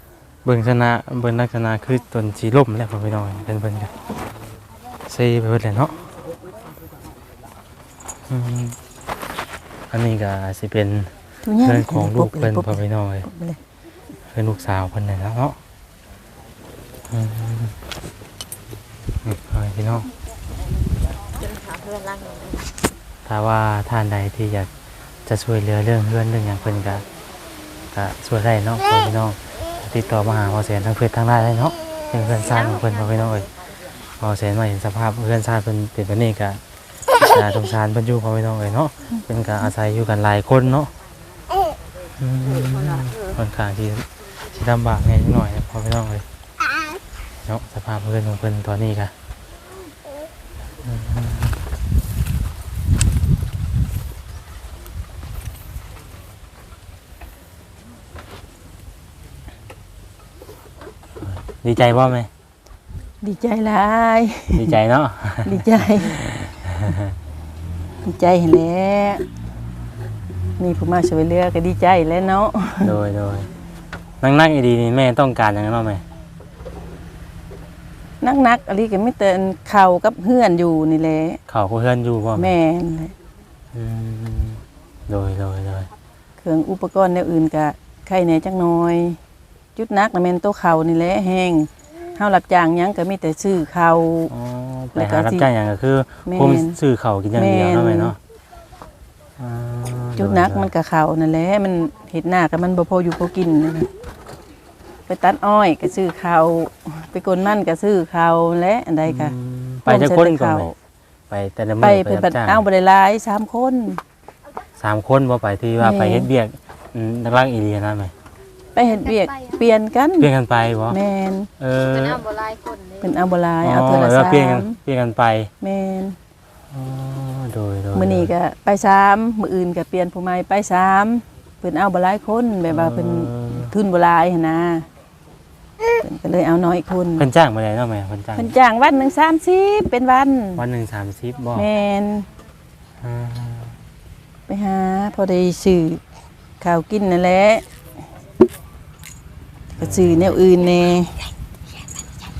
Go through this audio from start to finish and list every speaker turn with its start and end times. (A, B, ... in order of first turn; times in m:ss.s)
0:00.4-0:03.9 A
0:05.1-0:06.0 A
0:08.3-0:08.8 A
0:09.9-0:13.3 A
0:11.4-0:13.6 B
0:14.3-0:15.6 A
0:17.1-0:17.8 A
0:19.2-0:20.1 A
0:21.4-0:22.6 C
0:23.3-0:24.7 A
0:25.3-0:27.0 A
0:27.9-0:33.5 A
0:34.2-0:36.6 A
0:37.1-0:40.9 A
0:42.2-0:46.2 A
0:47.5-0:49.1 A
0:50.8-0:51.6 A
1:01.2-1:02.3 A
1:03.2-1:04.7 B
1:04.5-1:07.2 A
1:05.4-1:06.4 B
1:08.0-1:09.2 B
1:10.6-1:12.9 B
1:12.8-1:13.5 A
1:14.2-1:16.0 A
1:18.2-1:21.4 B
1:21.5-1:22.5 A
1:22.4-1:23.1 B
1:23.7-1:25.9 A
1:26.4-1:29.2 B
1:29.8-1:34.3 B
1:34.3-1:38.2 A
1:35.0-1:35.5 B
1:36.3-1:36.8 B
1:37.4-1:38.1 B
1:39.4-1:40.7 A
1:40.2-1:43.9 B
1:45.1-1:50.7 B
1:49.1-1:50.7 A
1:51.3-1:52.6 A
1:51.8-1:54.0 B
1:54.8-1:58.1 A
1:55.8-1:56.3 B
1:58.8-2:00.3 B
2:00.2-2:01.0 A
2:00.9-2:01.5 B
2:01.6-2:02.3 A
2:02.2-2:03.0 C
2:03.0-2:04.8 B
2:03.6-2:05.5 A
2:05.6-2:06.2 B
2:06.7-2:08.3 A
2:07.9-2:14.9 B
2:12.7-2:13.7 A
2:15.9-2:17.3 B
2:17.2-2:18.5 A
2:18.4-2:20.6 B
2:20.6-2:21.7 A
2:21.6-2:22.3 B
2:23.0-2:23.8 A
2:24.5-2:26.0 B
2:26.6-2:27.6 B
2:29.8-2:31.4 B
2:29.8-2:30.4 A